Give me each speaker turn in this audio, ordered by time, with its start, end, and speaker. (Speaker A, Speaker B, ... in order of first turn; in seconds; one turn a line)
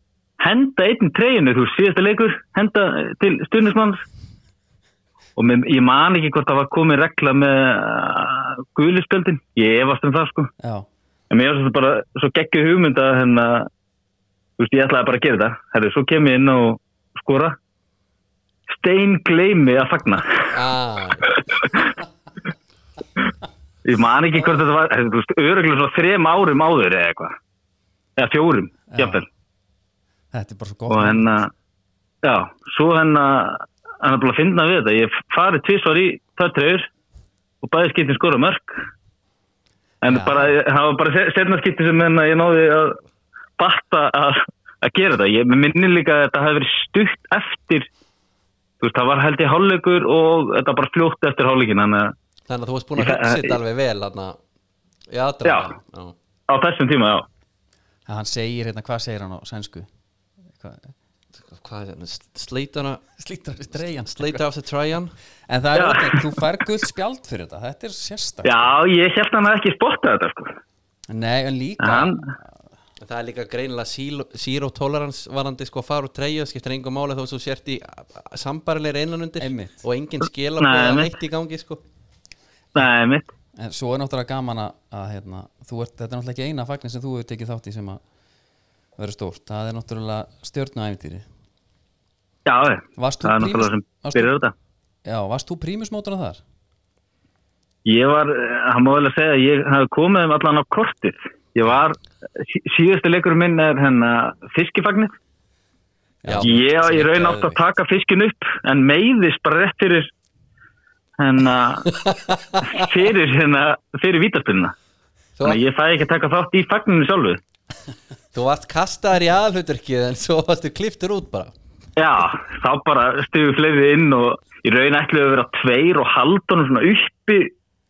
Speaker A: 0.4-4.0
Speaker A: 5.3-10.5
Speaker B: 10.6-10.8
Speaker A: 11.3-13.7
Speaker A: 14.6-17.6
Speaker A: 18.7-20.6
Speaker C: 20.5-21.4
Speaker A: 21.3-21.9
Speaker A: 23.8-27.4
Speaker A: 28.2-29.2
Speaker B: 28.9-29.2
Speaker B: 30.3-31.3
Speaker A: 30.9-31.5
Speaker A: 32.2-36.9
Speaker A: 37.6-38.8
Speaker A: 40.0-43.0
Speaker B: 40.0-40.5
Speaker A: 43.6-47.9
Speaker A: 48.8-52.1
Speaker C: 52.5-54.4
Speaker A: 53.0-53.6
Speaker C: 55.1-56.1
Speaker A: 55.4-55.7
Speaker A: 56.5-57.2
Speaker B: 58.0-59.9
Speaker B: 60.5-60.9
Speaker C: 61.4-63.0
Speaker B: 63.2-64.4
Speaker C: 63.8-65.1
Speaker B: 65.5-68.7
Speaker A: 65.7-66.4
Speaker A: 68.4-70.5
Speaker B: 71.1-72.4
Speaker A: 71.8-72.3
Speaker C: 73.0-81.8
Speaker B: 79.4-79.8
Speaker A: 80.6-81.1
Speaker A: 82.7-83.3
Speaker B: 83.5-88.0
Speaker B: 89.0-91.2
Speaker A: 92.5-94.5
Speaker B: 93.0-94.3
Speaker B: 95.0-96.4
Speaker A: 97.8-105.1
Speaker C: 106.2-106.6
Speaker B: 106.2-107.5
Speaker A: 106.4-110.1
Speaker A: 111.2-111.9
Speaker C: 112.0-112.8
Speaker A: 112.7-114.7
Speaker A: 115.4-117.4
Speaker C: 118.3-121.5
Speaker A: 122.0-127.5